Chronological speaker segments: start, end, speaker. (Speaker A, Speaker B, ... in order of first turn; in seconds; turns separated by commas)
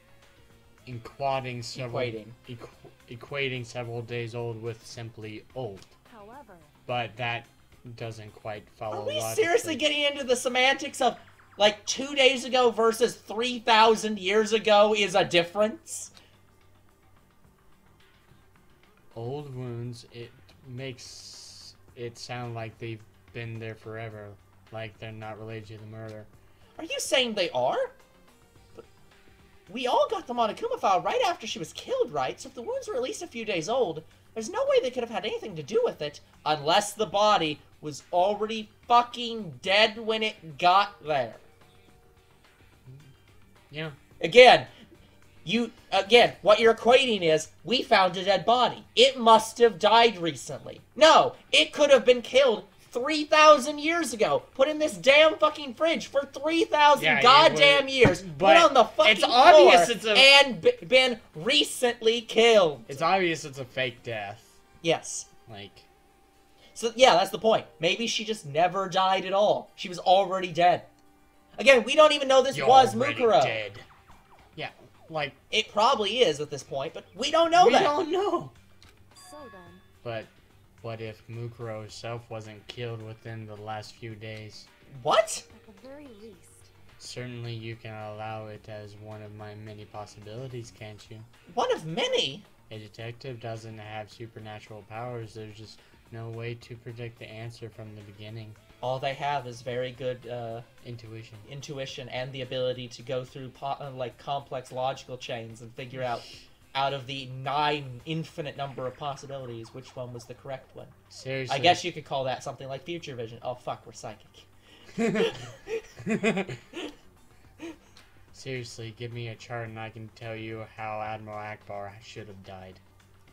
Speaker A: 0.9-5.9, Speaker B: 1.7-2.4, Speaker C: 6.1-6.8, Speaker A: 6.9-9.8, Speaker B: 8.9-16.1, Speaker A: 19.1-26.3, Speaker B: 26.8-28.0, Speaker B: 29.7-41.4, Speaker A: 43.7-44.0, Speaker B: 44.2-44.7, Speaker B: 45.5-63.0, Speaker A: 57.0-60.3, Speaker A: 62.9-64.5, Speaker B: 64.8-65.3, Speaker A: 65.5-65.9, Speaker B: 66.8-70.9, Speaker B: 71.6-73.6, Speaker A: 72.5-73.9, Speaker A: 74.5-75.4, Speaker B: 75.5-77.9, Speaker A: 77.6-78.5, Speaker C: 79.2-79.8, Speaker A: 80.0-80.3, Speaker A: 80.8-84.7, Speaker B: 85.0-85.4, Speaker C: 85.5-86.7, Speaker A: 87.0-91.3, Speaker B: 91.5-92.5, Speaker A: 92.7-98.6, Speaker B: 98.8-100.7, Speaker A: 100.8-101.5, Speaker B: 101.5-110.9, Speaker A: 111.1-111.8, Speaker B: 111.5-114.5, Speaker A: 115.0-115.3, Speaker B: 115.1-115.6, Speaker A: 116.0-116.6, Speaker A: 118.3-122.8